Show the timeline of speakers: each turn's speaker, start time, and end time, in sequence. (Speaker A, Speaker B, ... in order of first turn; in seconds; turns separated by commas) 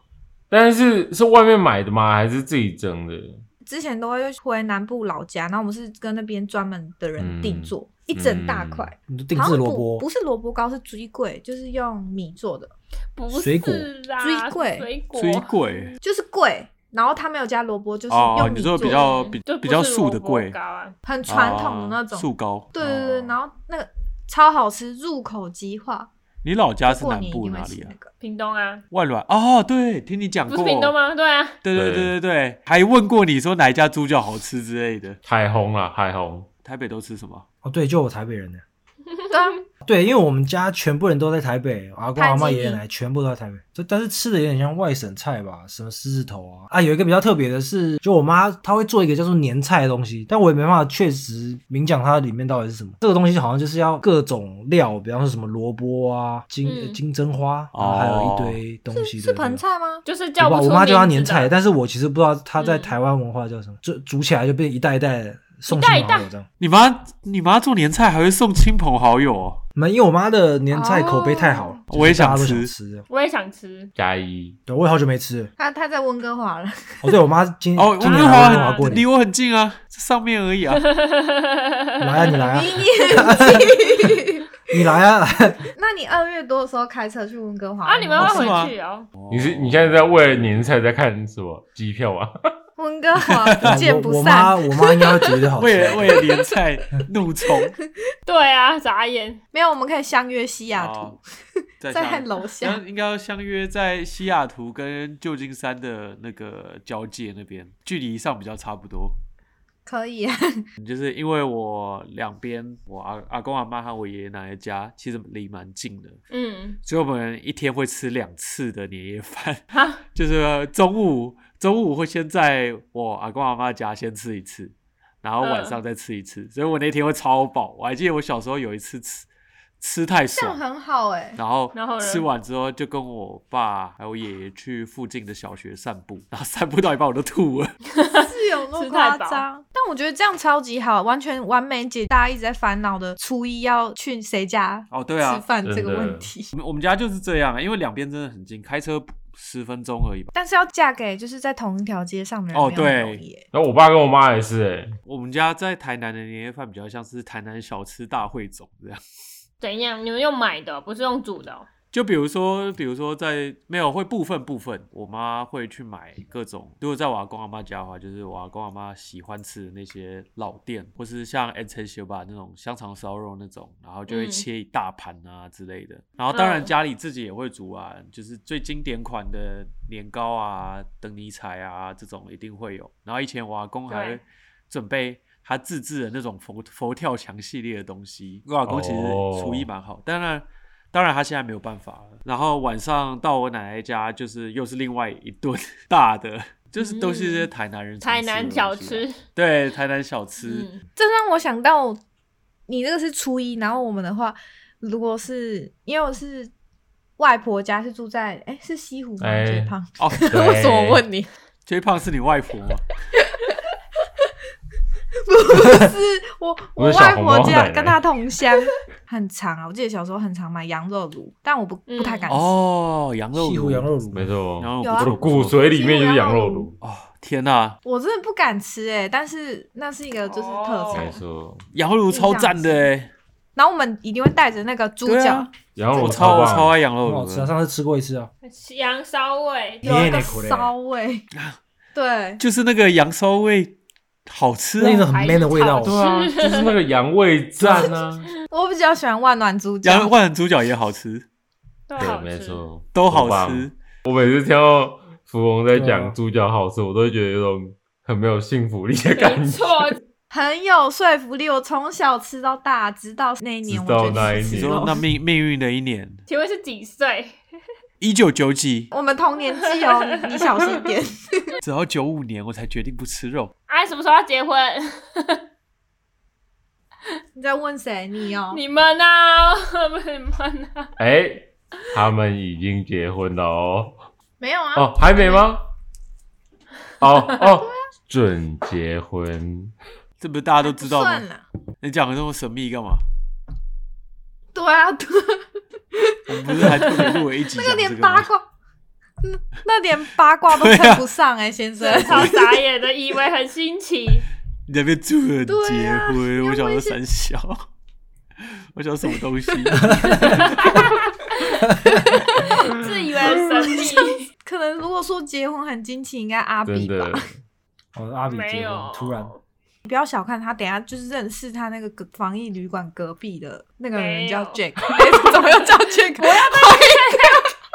Speaker A: 0.5-3.4, Speaker B: 3.6-12.7, Speaker A: 7.2-8.9, Speaker C: 9.1-10.1, Speaker D: 13.2-15.9, Speaker C: 13.3-13.9, Speaker B: 14.2-14.9, Speaker E: 15.2-15.9, Speaker B: 16.0-19.1, Speaker E: 18.1-20.6, Speaker D: 18.4-20.9, Speaker B: 21.1-26.1, Speaker E: 21.3-23.4, Speaker E: 26.4-27.9, Speaker B: 26.9-28.1, Speaker D: 28.2-28.8, Speaker E: 28.9-30.9, Speaker D: 30.5-31.6, Speaker E: 31.6-35.2, Speaker A: 31.8-32.1, Speaker A: 35.2-36.5, Speaker E: 36.6-37.5, Speaker C: 37.6-38.6, Speaker B: 39.3-39.6, Speaker C: 39.8-59.6, Speaker B: 42.1-42.8, Speaker D: 56.6-57.0, Speaker E: 57.7-58.6, Speaker B: 58.9-60.0, Speaker D: 60.0-61.5, Speaker C: 60.4-66.5, Speaker D: 62.6-62.9, Speaker D: 65.7-66.3, Speaker E: 66.6-69.6, Speaker C: 69.8-73.0, Speaker B: 70.7-71.8, Speaker E: 71.9-72.7, Speaker D: 73.1-73.9, Speaker A: 74.0-74.6, Speaker C: 74.7-75.5, Speaker B: 75.6-77.1, Speaker C: 77.0-79.0, Speaker E: 77.8-80.8, Speaker D: 78.2-79.0, Speaker D: 80.8-82.4, Speaker C: 82.0-84.1, Speaker B: 82.4-84.5, Speaker C: 84.7-85.6, Speaker B: 85.7-88.6, Speaker D: 87.8-89.1, Speaker E: 88.2-90.6, Speaker A: 89.3-92.5, Speaker B: 92.8-95.3, Speaker E: 93.4-93.8, Speaker C: 93.6-96.2, Speaker E: 95.6-97.8, Speaker D: 98.2-99.4, Speaker B: 99.5-101.2, Speaker E: 100.7-101.2, Speaker E: 101.8-109.2, Speaker B: 101.9-102.8, Speaker B: 109.9-110.6, Speaker E: 110.8-116.2, Speaker D: 116.3-116.8, Speaker E: 116.8-129.3, Speaker D: 119.7-120.0, Speaker D: 125.4-125.8, Speaker E: 129.8-130.6, Speaker B: 130.3-131.4, Speaker E: 131.4-137.8, Speaker D: 131.7-132.3, Speaker D: 137.9-139.4, Speaker B: 138.2-146.5, Speaker E: 144.9-145.4, Speaker A: 145.6-146.3, Speaker E: 146.5-150.3, Speaker B: 150.3-153.4, Speaker E: 152.5-153.2, Speaker A: 153.5-155.0, Speaker E: 155.1-159.0, Speaker D: 159.6-161.7, Speaker E: 161.9-200.7, Speaker D: 174.1-174.4, Speaker D: 176.3-176.7, Speaker D: 183.9-184.2, Speaker A: 188.6-189.7, Speaker D: 196.8-197.5, Speaker D: 198.0-199.2, Speaker D: 200.4-200.8, Speaker B: 201.0-202.0, Speaker B: 202.7-206.5, Speaker B: 207.2-211.3, Speaker A: 209.2-209.8, Speaker E: 210.0-210.3, Speaker A: 210.3-211.0, Speaker E: 211.7-212.9, Speaker B: 213.2-213.6, Speaker B: 215.3-222.6, Speaker A: 216.8-218.0, Speaker D: 221.9-222.3, Speaker E: 222.3-223.9, Speaker C: 223.3-224.3, Speaker A: 224.1-226.8, Speaker E: 224.6-225.7, Speaker B: 224.8-226.7, Speaker E: 226.8-227.8, Speaker B: 227.8-231.2, Speaker D: 230.3-231.2, Speaker A: 230.9-231.6, Speaker E: 231.7-233.1, Speaker B: 232.1-232.9, Speaker B: 233.6-235.5, Speaker E: 235.1-237.5, Speaker A: 235.8-236.8, Speaker C: 237.1-238.3, Speaker D: 238.4-240.1, Speaker C: 239.8-240.7, Speaker B: 239.8-241.2, Speaker B: 241.9-242.4, Speaker E: 242.4-245.1, Speaker C: 244.8-246.0, Speaker D: 244.8-246.8, Speaker A: 245.8-248.3, Speaker E: 247.6-247.9, Speaker B: 248.5-250.1, Speaker E: 249.8-251.2, Speaker D: 251.9-252.6, Speaker A: 252.0-259.9, Speaker E: 252.9-253.7, Speaker C: 255.7-256.1, Speaker D: 259.1-260.0, Speaker B: 260.3-265.0, Speaker A: 263.7-264.9, Speaker E: 264.4-266.2, Speaker D: 266.3-267.4, Speaker E: 268.0-268.9, Speaker B: 268.9-271.5, Speaker D: 269.7-270.8, Speaker E: 271.6-273.5, Speaker D: 273.7-275.4, Speaker B: 277.4-278.6, Speaker D: 278.5-280.9, Speaker A: 281.0-284.0, Speaker B: 284.4-285.5, Speaker A: 284.8-285.6, Speaker A: 287.0-289.7, Speaker E: 290.2-291.2, Speaker B: 290.6-291.4, Speaker E: 291.8-293.0, Speaker B: 294.6-298.4, Speaker E: 296.3-298.3, Speaker B: 299.2-302.6, Speaker E: 300.5-301.1, Speaker D: 301.8-304.2, Speaker E: 301.9-302.3, Speaker E: 304.7-307.6, Speaker B: 305.5-307.0, Speaker E: 308.4-310.8, Speaker C: 309.8-310.4, Speaker D: 310.2-314.3, Speaker B: 310.2-310.5, Speaker B: 312.4-317.3, Speaker A: 316.6-317.4, Speaker C: 317.9-319.3, Speaker D: 318.3-319.4, Speaker B: 319.9-327.5, Speaker D: 323.9-327.4